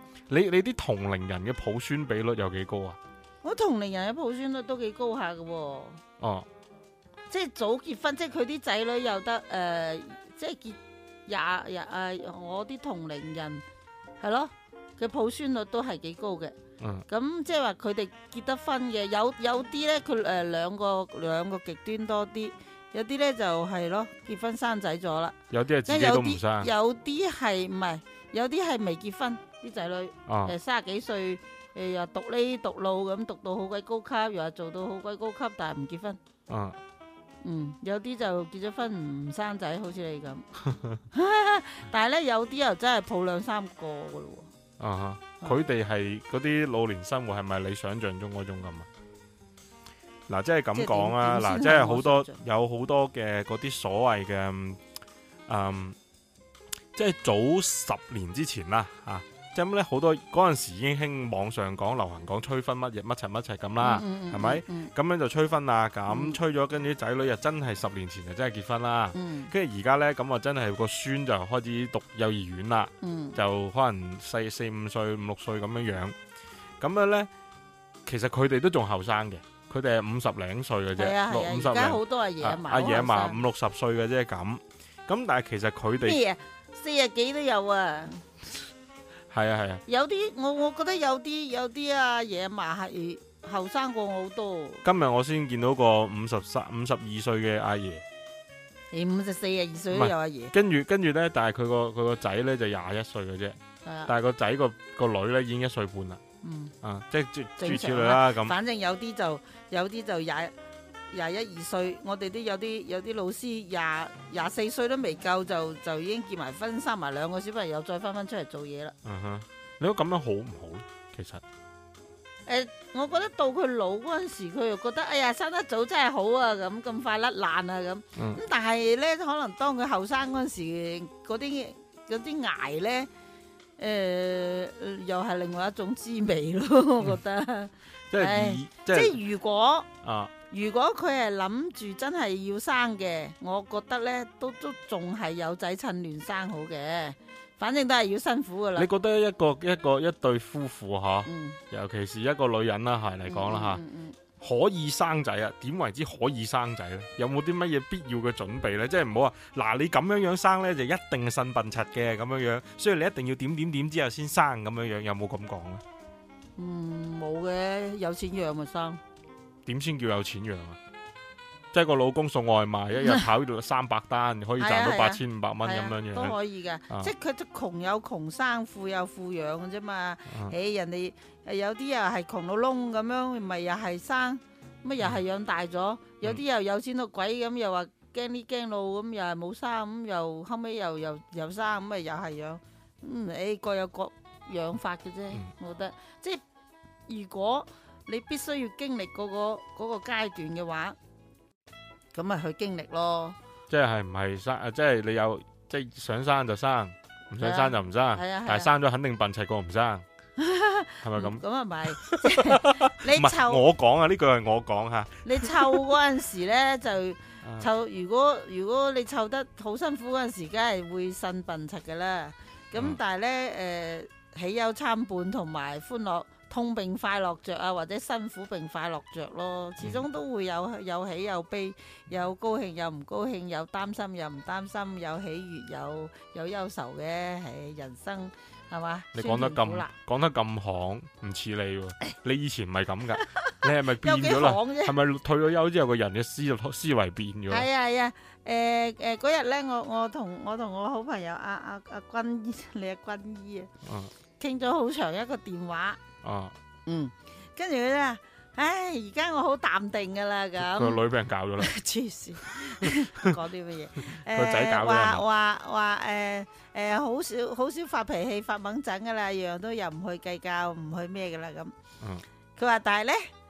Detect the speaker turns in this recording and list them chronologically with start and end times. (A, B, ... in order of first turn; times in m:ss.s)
0:00.3-0:03.0 A
0:03.4-0:06.0 B
0:06.2-0:06.5 A
0:07.3-0:13.6 B
0:14.2-0:16.6 B
0:16.8-0:17.0 A
0:17.1-0:36.2 B
0:25.5-0:26.7 A
0:30.3-0:30.6 A
0:36.5-0:36.8 A
0:37.4-0:40.5 B
0:40.7-0:41.0 A
0:41.1-0:44.5 B
0:44.8-0:48.9 A
0:50.3-0:54.8 A
0:50.7-0:52.4 B
0:55.5-0:56.0 A
0:57.0-1:16.2 A
1:03.8-1:04.9 B
1:06.1-1:06.4 B
1:09.1-1:09.5 B
1:13.0-1:13.4 B
1:16.8-1:17.3 A
1:18.1-1:26.2 A
1:21.0-1:23.4 B
1:26.0-1:28.3 B
1:29.3-1:29.8 A
1:29.9-1:34.8 B
1:34.8-1:38.0 A
1:38.9-1:40.5 B
1:39.9-1:46.2 A
1:43.8-1:44.1 B
1:46.4-1:46.7 B
1:46.8-1:48.6 A
1:47.6-1:50.5 B
1:51.1-1:59.0 B
1:59.0-2:01.4 A
2:02.5-2:13.1 B
2:13.8-2:19.9 B
2:18.1-2:19.2 A
2:20.0-2:20.3 A
2:20.5-2:28.9 B
2:28.8-2:33.8 A
2:31.3-2:31.6 B
2:33.3-2:34.2 B
2:34.4-2:45.8 A
2:46.6-2:49.0 B
2:49.7-2:50.8 A
2:51.7-2:56.4 A
2:53.0-2:53.3 B
2:54.6-3:16.4 B
3:00.3-3:00.5 A
3:17.1-3:21.0 B
3:22.1-3:23.4 B
3:23.7-3:30.0 A
3:27.4-3:28.7 B
3:30.4-3:33.6 B
3:31.0-3:35.8 A
3:35.2-3:59.9 B
3:37.4-3:37.7 A
3:59.1-4:07.7 A
4:03.2-4:05.0 B
4:07.5-4:13.7 B
4:13.8-4:14.1 A
4:14.4-4:16.0 B
4:16.2-4:16.6 A
4:16.9-4:21.0 B
4:20.6-4:21.7 A
4:21.6-4:31.7 B
4:22.5-4:23.3 A
4:24.1-4:25.2 A
4:32.6-4:33.3 B